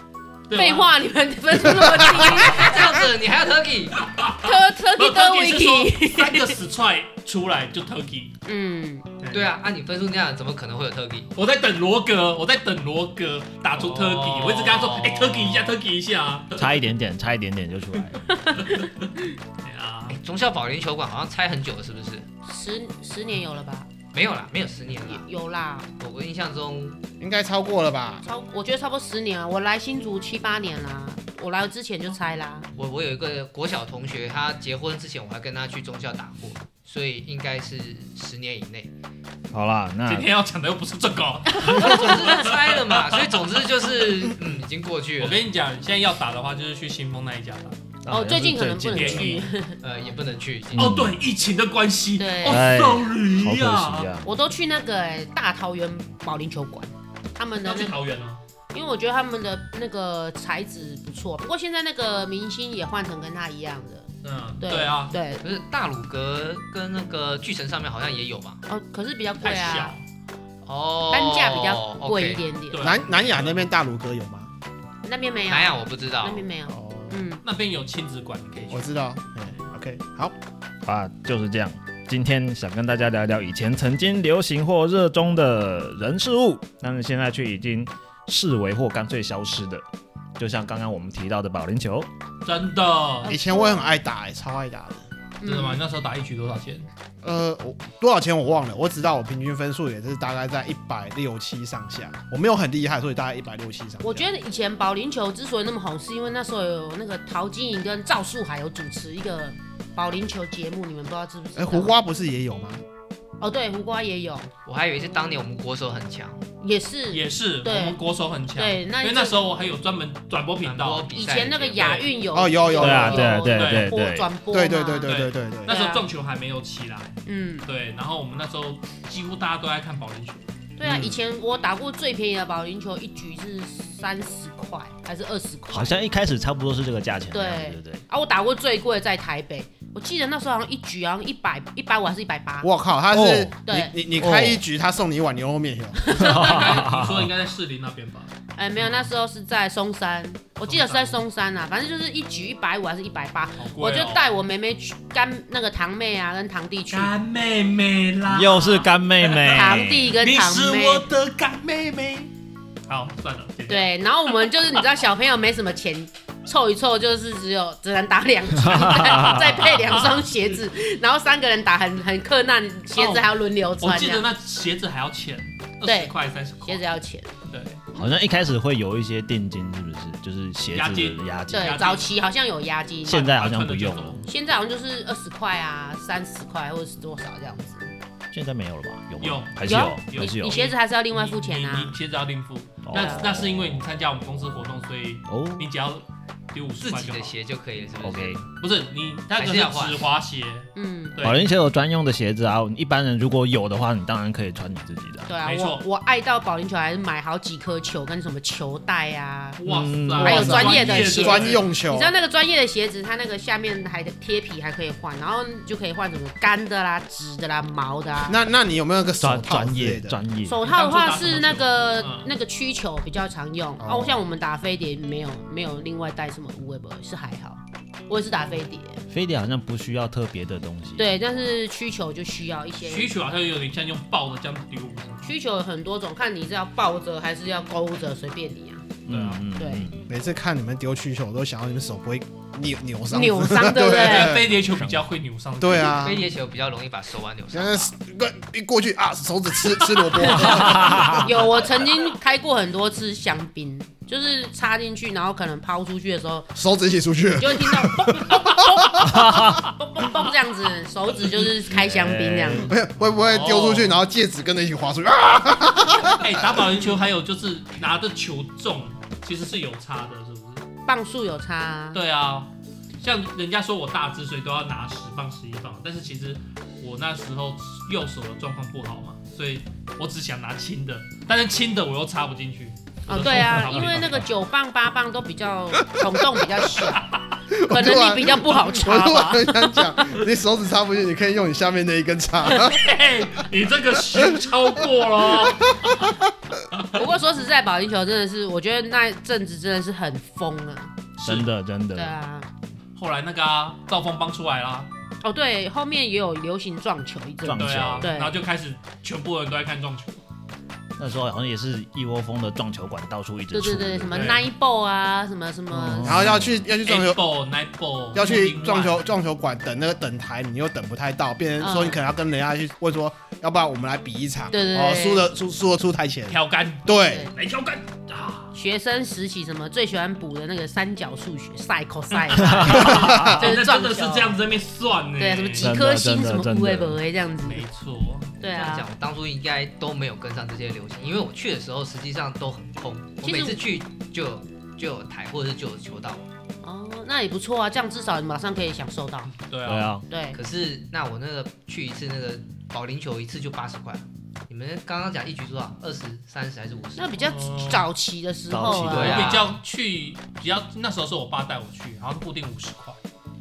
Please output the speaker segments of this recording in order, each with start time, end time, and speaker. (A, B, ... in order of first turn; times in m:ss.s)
0:00.5-0:00.9 A
0:00.5-0:02.9 B
0:01.6-0:02.2 C
0:02.3-0:04.0 D
0:02.4-0:02.8 A
0:04.0-0:08.4 A
0:04.4-0:06.6 B
0:08.4-0:09.1 B
0:09.2-0:09.5 A
0:09.3-0:11.3 D
0:11.4-0:16.7 A
0:13.8-0:15.7 D
0:16.5-0:18.2 E
0:18.4-0:18.9 B
0:18.6-0:19.0 A
0:19.6-0:20.2 A
0:20.1-0:22.3 D
0:22.5-0:23.9 B
0:24.1-0:25.3 D
0:25.0-0:25.9 B
0:26.0-0:27.0 D
0:27.2-0:28.3 C
0:28.3-0:32.7 B
0:32.8-0:38.9 D
0:39.5-0:40.3 E
0:40.1-0:43.4 A
0:41.5-0:42.4 B
0:41.7-0:45.4 D
0:45.2-0:47.8 A
0:48.0-0:49.5 E
0:48.1-0:49.8 B
0:48.9-0:49.4 A
0:49.8-0:51.0 D
0:50.7-0:51.2 E
0:50.8-0:54.1 A
0:52.2-0:52.6 B
0:52.4-0:54.3 E
0:54.2-0:58.0 B
0:57.6-0:58.4 A
0:58.7-1:04.1 B
1:04.2-1:05.2 A
1:04.6-1:05.4 B
1:05.4-1:08.6 D
1:08.7-1:09.9 B
1:09.4-1:10.0 A
1:10.7-1:12.4 D
1:11.1-1:12.9 B
1:12.7-1:13.7 A
1:12.8-1:14.5 C
1:15.0-1:17.4 B
1:15.5-1:16.5 D
1:16.7-1:17.3 C
1:17.4-1:19.6 A
1:18.7-1:20.3 C
1:20.8-1:29.8 E
1:30.4-1:32.1 E
1:32.4-1:33.3 A
1:33.2-1:34.0 B
1:33.3-1:35.0 C
1:35.4-1:35.8 B
1:35.4-1:36.9 A
1:37.2-1:44.3 C
1:44.0-1:51.9 B
1:51.6-1:52.8 C
1:53.4-1:54.5 B
1:54.7-1:56.4 D
1:56.6-1:58.0 B
1:57.1-2:01.1 A
1:58.6-1:59.4 B
2:00.6-2:02.0 D
2:01.1-2:06.1 B
2:01.8-2:02.1 A
2:02.3-2:03.4 C
2:02.8-2:04.3 E
2:03.4-2:03.9 A
2:04.5-2:05.7 C
2:05.1-2:10.4 A
2:07.3-2:07.7 B
2:10.8-2:16.0 B
2:10.8-2:11.2 C
2:15.7-2:18.0 E
2:17.3-2:22.7 B
2:22.6-2:26.0 C
2:23.1-2:23.5 E
2:23.6-2:23.9 B
2:24.1-2:24.6 E
2:26.0-2:26.5 B
2:26.1-2:29.1 A
2:26.1-2:27.3 E
2:28.6-2:37.1 B
2:30.6-2:31.2 A
2:33.6-2:34.3 A
2:36.9-2:42.3 A
2:38.3-2:40.2 E
2:39.5-2:41.0 B
2:42.9-2:43.9 A
2:43.7-2:54.2 B
2:48.6-2:49.8 E
2:49.8-2:50.2 A
2:53.0-2:53.3 A
2:53.8-2:56.8 A
2:55.8-2:57.4 B
2:57.5-2:57.8 A
2:58.0-3:01.8 E
3:00.7-3:02.1 A
3:01.5-3:03.2 B
3:03.1-3:04.2 E
3:03.1-3:04.3 A
3:04.3-3:07.9 B
3:08.3-3:10.6 E
3:09.2-3:17.3 A
3:09.6-3:11.9 B
3:12.8-3:13.8 E
3:12.9-3:13.2 B
3:15.3-3:15.7 E
3:16.8-3:18.4 D
3:18.0-3:18.4 E
3:18.6-3:21.5 A
3:19.3-3:20.1 D
3:20.8-3:21.2 B
3:21.2-3:25.3 E
3:25.3-3:29.6 B
3:25.4-3:25.8 A
3:29.6-3:31.7 A
3:29.7-3:30.7 E
3:30.2-3:38.4 B
3:30.3-3:32.1 C
3:38.3-3:40.2 C
3:39.2-3:40.6 E
3:40.5-3:49.0 B
3:40.6-3:42.3 A
3:43.8-3:44.2 C
3:49.1-3:51.1 E
3:51.0-3:53.1 B
3:52.8-3:55.3 A
3:55.2-3:58.8 B
3:59.1-4:00.1 E
3:59.1-3:59.4 A
3:59.6-3:59.9 B
4:00.1-4:04.6 C
4:03.1-4:04.4 B
4:03.9-4:06.2 A
4:04.6-4:05.0 E
4:05.6-4:06.2 C
4:05.9-4:07.9 D
4:07.5-4:11.9 C
4:10.1-4:16.5 B
4:10.3-4:11.3 E
4:16.6-4:19.1 C
4:17.4-4:22.7 B
4:19.0-4:19.7 E
4:21.6-4:22.7 E
4:22.5-4:26.8 C
4:23.0-4:24.0 A
4:26.2-4:30.6 A
4:30.9-4:32.0 B
4:31.9-4:44.3 A
4:43.1-4:47.1 B
4:46.1-4:46.4 C
4:46.9-4:47.2 A
4:47.5-4:52.8 C
4:47.7-4:49.8 B
4:52.6-4:56.1 A
4:55.4-4:56.2 C
4:56.7-4:57.0 A
4:56.9-5:00.9 B
5:01.2-5:02.2 E
5:01.2-5:01.5 A
5:02.0-5:02.5 B
5:03.0-5:04.9 A
5:05.2-5:08.4 B
5:07.4-5:08.1 E
5:07.5-5:10.2 A
5:11.0-5:14.4 E
5:13.5-5:16.2 B
5:14.1-5:14.5 A
5:15.7-5:16.7 E
5:16.0-5:17.2 C
5:16.8-5:19.1 A
5:18.1-5:27.3 C
5:21.6-5:22.0 B
5:24.5-5:25.3 B
5:26.3-5:28.5 A
5:28.5-5:34.4 B
5:32.3-5:35.7 A
5:32.4-5:33.3 E
5:32.7-5:33.5 C
5:35.2-5:37.6 B
5:35.6-5:37.0 E
5:37.4-5:38.4 A
5:38.4-5:38.9 B
5:38.4-5:46.2 D
5:43.2-5:43.6 B
5:46.6-5:49.3 B
5:49.4-5:50.0 A
5:49.6-5:50.0 E
5:50.1-5:50.4 B
5:50.3-5:57.2 D
5:57.0-5:59.4 B
5:57.2-5:57.9 A
5:58.5-5:59.3 E
5:58.7-6:03.0 A
5:58.8-5:59.6 D